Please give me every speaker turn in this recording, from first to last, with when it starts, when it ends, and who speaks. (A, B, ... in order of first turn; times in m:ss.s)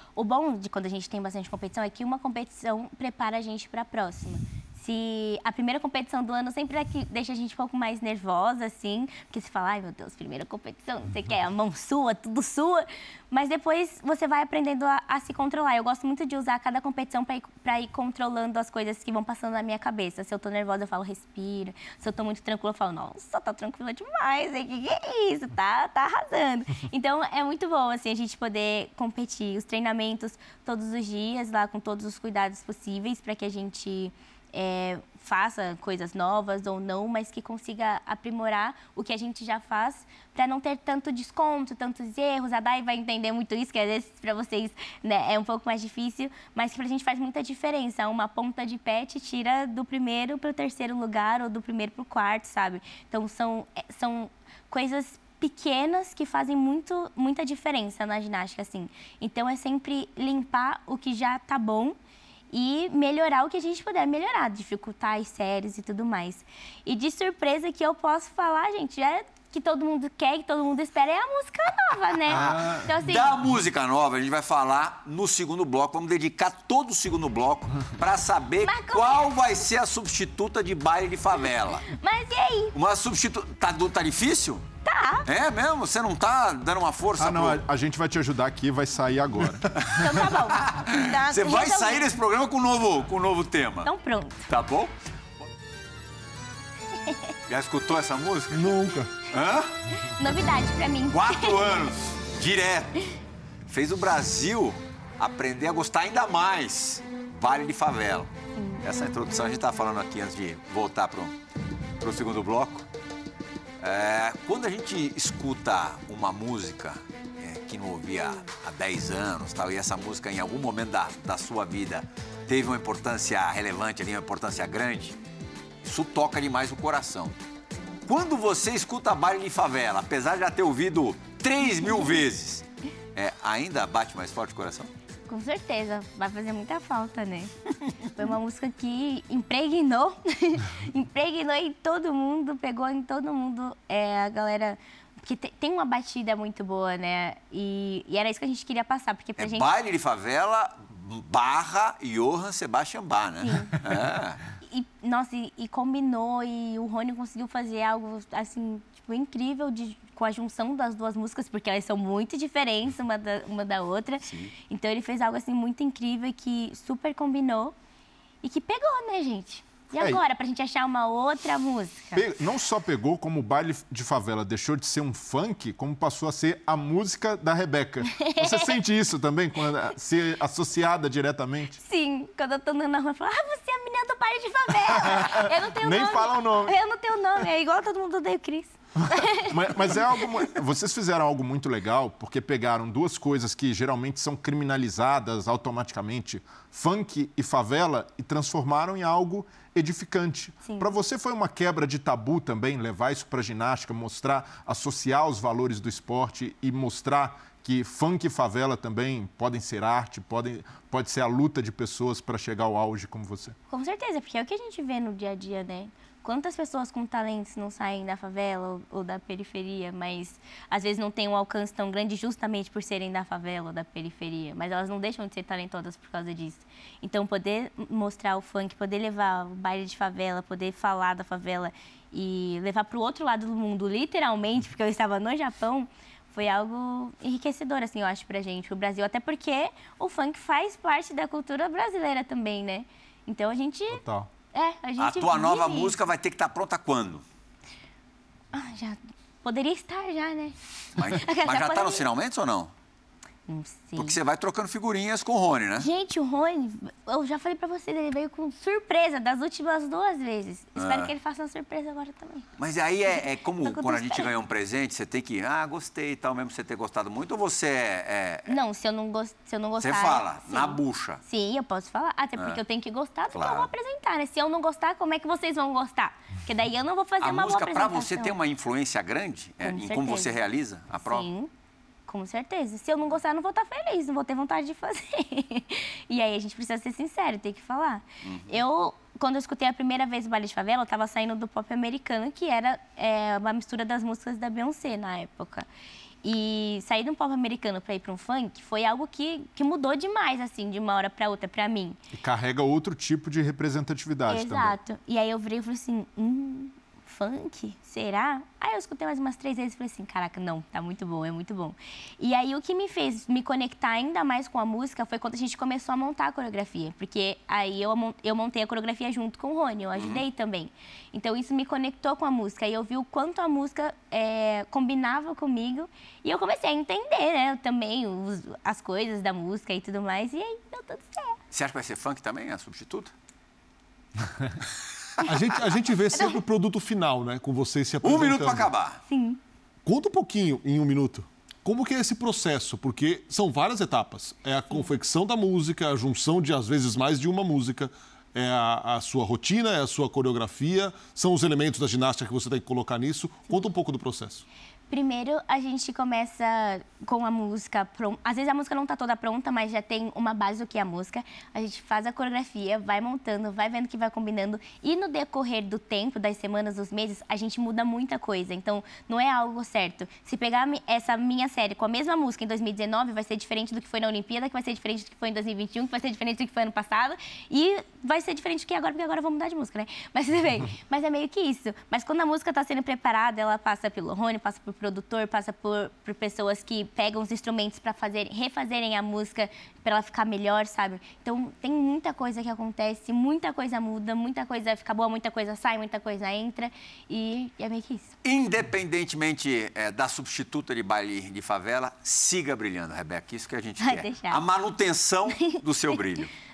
0:00.2-1:02.0 A
1:02.5-1:13.4 A
1:12.3-1:21.9 B
1:12.4-1:12.9 C
1:18.6-1:19.5 A
1:21.9-1:22.7 A
1:22.7-1:24.6 B
1:24.8-1:25.2 A
1:25.2-1:27.6 B
1:27.2-1:29.8 C
1:29.7-1:33.9 B
1:29.9-1:32.1 A
1:33.8-1:34.5 A
1:34.5-1:34.9 B
1:37.5-1:38.7 B
1:38.5-1:39.1 D
1:39.2-1:39.8 B
1:40.0-1:41.6 A
1:41.1-1:43.0 B
1:43.7-1:48.3 B
1:48.5-1:48.8 A
1:48.8-1:51.4 B
1:52.0-1:52.9 B
1:53.8-2:05.2 B
2:05.8-2:07.4 B
2:08.0-2:14.9 B
2:15.3-2:17.5 A
2:18.0-2:29.7 A
2:29.4-2:34.4 B
2:33.4-2:33.7 A
2:34.6-2:47.7 A
2:44.2-2:44.5 B
2:48.4-2:52.2 A
2:49.9-2:50.2 C
2:52.1-3:01.8 C
2:58.1-2:58.7 A
3:01.8-3:09.6 A
3:05.0-3:06.8 C
3:09.2-3:33.6 C
3:33.7-4:04.0 A
4:03.9-4:04.3 C
4:04.5-4:06.0 A
4:05.0-4:07.2 B
4:08.5-4:12.0 A
4:10.9-4:12.7 B
4:13.5-4:14.2 A
4:14.0-4:15.9 B
4:15.8-4:22.5 A
4:20.8-4:21.1 B
4:22.6-4:28.5 B
4:23.1-4:24.3 A
4:28.5-4:38.4 A
4:29.8-4:31.2 B
4:33.3-4:33.7 B
4:37.2-4:41.2 B
4:39.6-4:40.3 A
4:41.0-4:41.5 A
4:42.1-4:55.7 A
4:48.2-4:48.6 B
4:56.2-5:02.0 A
5:02.1-5:04.8 C
5:04.3-5:31.4 A
5:20.0-5:20.2 B
5:31.5-5:33.1 B
5:35.2-5:38.7 D
5:36.1-5:36.4 A
5:38.0-5:39.0 B
5:39.1-5:39.4 A
5:39.8-5:54.4 D
5:54.9-6:38.1 A
6:38.2-6:46.3 B
6:43.8-6:44.4 A
6:45.3-6:46.0 A